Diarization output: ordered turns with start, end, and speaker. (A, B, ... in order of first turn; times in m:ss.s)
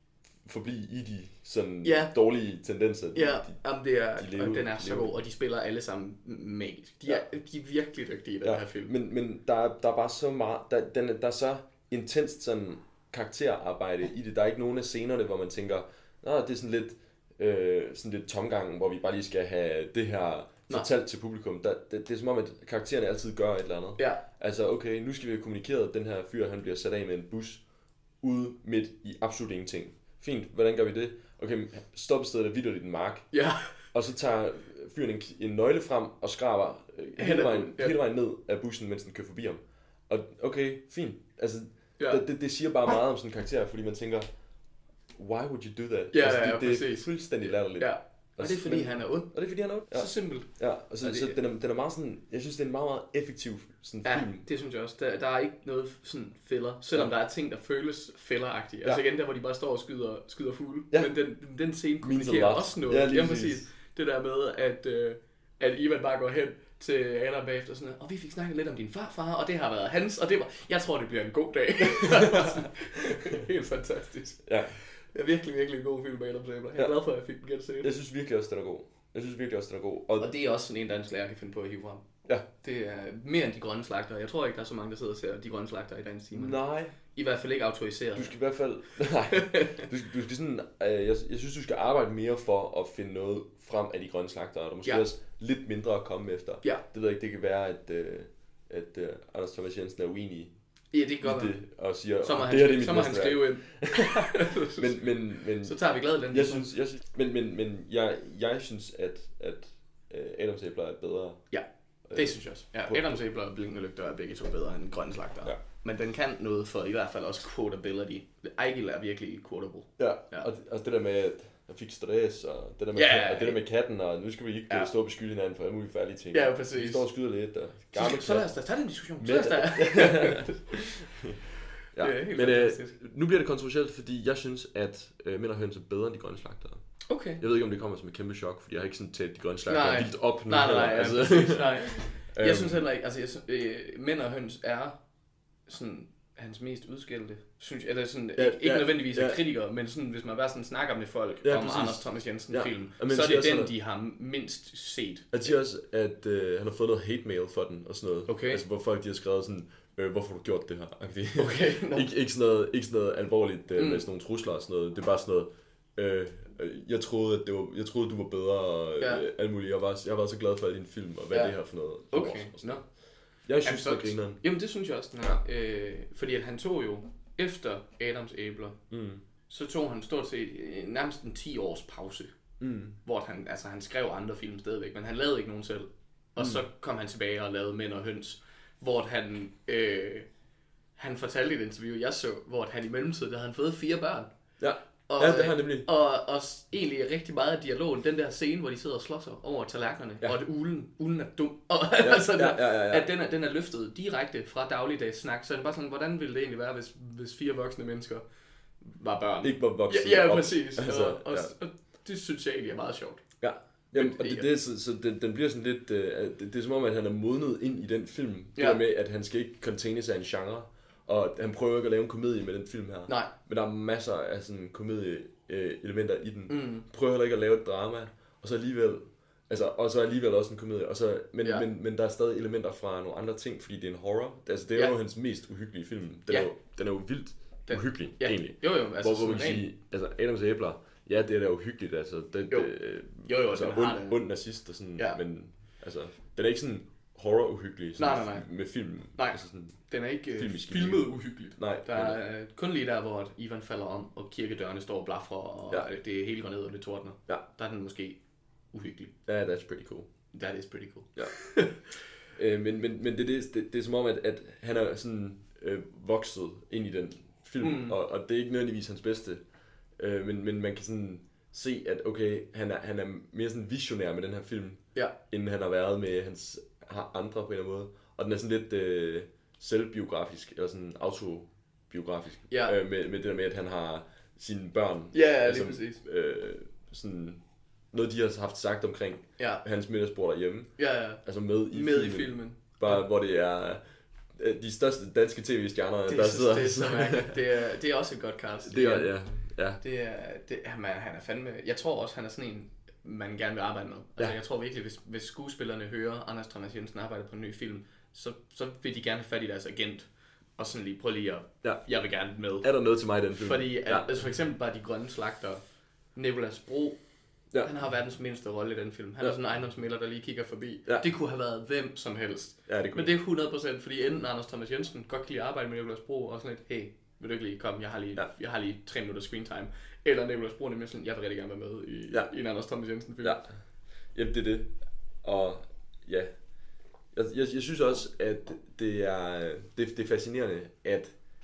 0:00.4-0:03.6 A
0:01.8-0:02.1 B
0:03.1-0:08.9 B
0:04.2-0:05.1 A
0:08.4-0:27.6 A
0:24.0-0:24.2 B
0:28.2-0:33.3 A
0:33.3-0:33.7 B
0:33.9-0:44.3 A
0:37.2-0:38.0 B
0:45.1-0:54.4 A
0:46.1-0:47.1 B
0:47.8-0:49.3 B
0:49.9-0:50.5 B
0:51.0-0:51.4 B
0:54.0-1:17.9 B
1:02.0-1:03.6 A
1:11.9-1:12.6 A
1:14.4-1:14.8 A
1:17.8-1:20.3 A
1:20.2-1:22.0 B
1:22.6-1:26.6 B
1:26.3-1:27.0 A
1:27.1-1:28.4 B
1:28.1-1:40.5 A
1:29.3-1:29.8 B
1:40.9-1:41.6 B
1:41.2-1:51.4 A
1:42.2-1:46.7 B
1:51.5-2:00.5 B
1:52.1-1:53.2 A
2:00.0-2:08.5 A
2:02.9-2:03.6 B
2:06.3-2:07.0 B
2:07.9-2:10.7 B
2:09.2-2:11.4 A
2:11.9-2:16.8 A
2:12.0-2:13.0 B
2:17.0-2:17.4 B
2:17.4-2:22.8 A
2:19.7-2:25.0 B
2:25.7-2:35.3 B
2:28.4-2:29.4 A
2:31.4-2:33.7 A
2:35.3-2:52.8 A
2:38.3-2:38.6 B
2:41.4-2:42.1 B
2:43.8-2:44.0 B
2:51.3-2:51.6 B
2:52.1-2:52.8 B
2:53.4-2:54.4 A
2:53.6-2:58.8 B
2:58.9-2:59.2 A
2:59.5-3:02.3 B
3:02.6-3:03.0 A
3:03.0-3:10.3 B
3:06.4-3:06.6 A
3:11.0-3:14.3 B
3:14.6-3:15.9 A
3:15.1-3:28.2 B
3:22.0-3:23.1 A
3:28.8-3:33.2 B
3:29.4-3:31.5 A
3:33.4-4:09.8 A
3:33.9-3:34.5 B
3:46.5-3:46.8 B
3:57.7-3:59.7 B
4:02.5-4:04.2 B
4:08.0-4:08.5 B
4:09.1-4:18.2 B
4:10.3-4:12.2 A
4:18.7-4:19.1 B
4:19.3-4:20.1 A
4:20.3-4:21.8 B
4:22.3-4:29.4 A
4:27.6-4:28.0 B
4:30.0-4:47.4 A
4:42.5-4:42.8 B
4:45.1-4:46.0 B
4:47.9-4:53.8 A
4:49.4-4:49.6 B
4:50.8-4:53.0 B
4:54.3-4:57.4 A
4:56.1-4:59.1 B
4:58.6-4:59.8 A
4:59.8-5:12.7 B
5:12.6-5:14.2 A
5:13.3-5:15.6 B
5:16.1-5:17.0 B
5:17.6-5:33.4 B
5:22.7-5:23.1 A
5:34.1-5:36.3 A
5:37.1-5:41.1 A